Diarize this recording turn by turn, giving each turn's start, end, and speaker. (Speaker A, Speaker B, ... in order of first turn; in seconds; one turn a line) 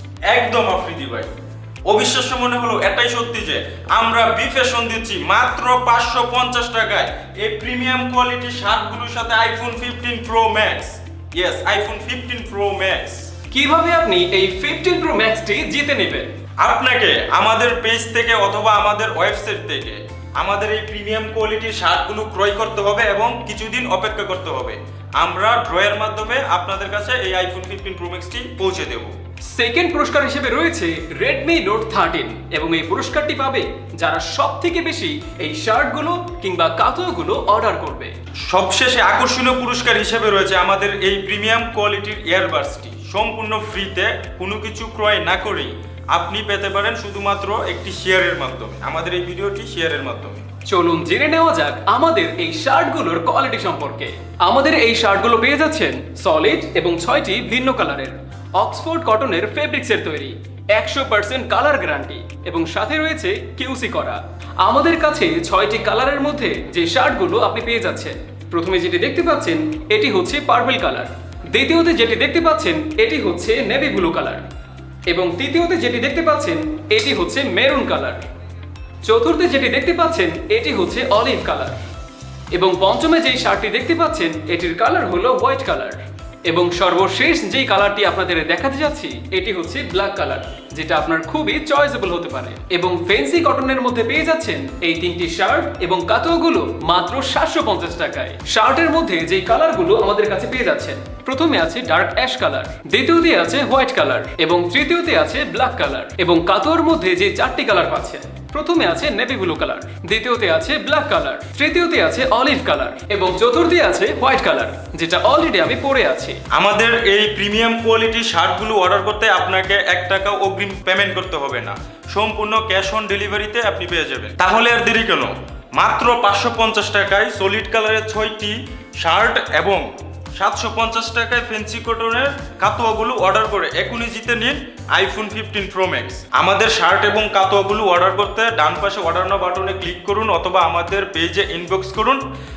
Speaker A: 0.3-1.3
Speaker A: 1.9-13.3
Speaker B: 13.5-16.3
Speaker A: 16.6-29.1
Speaker B: 29.5-38.1
Speaker A: 38.5-50.4
Speaker B: 50.7-74.4
Speaker B: 75.1-78.2
Speaker B: 79.0-81.8
Speaker B: 82.5-116.4
Speaker A: 116.5-129.8
Speaker A: 130.4-142.2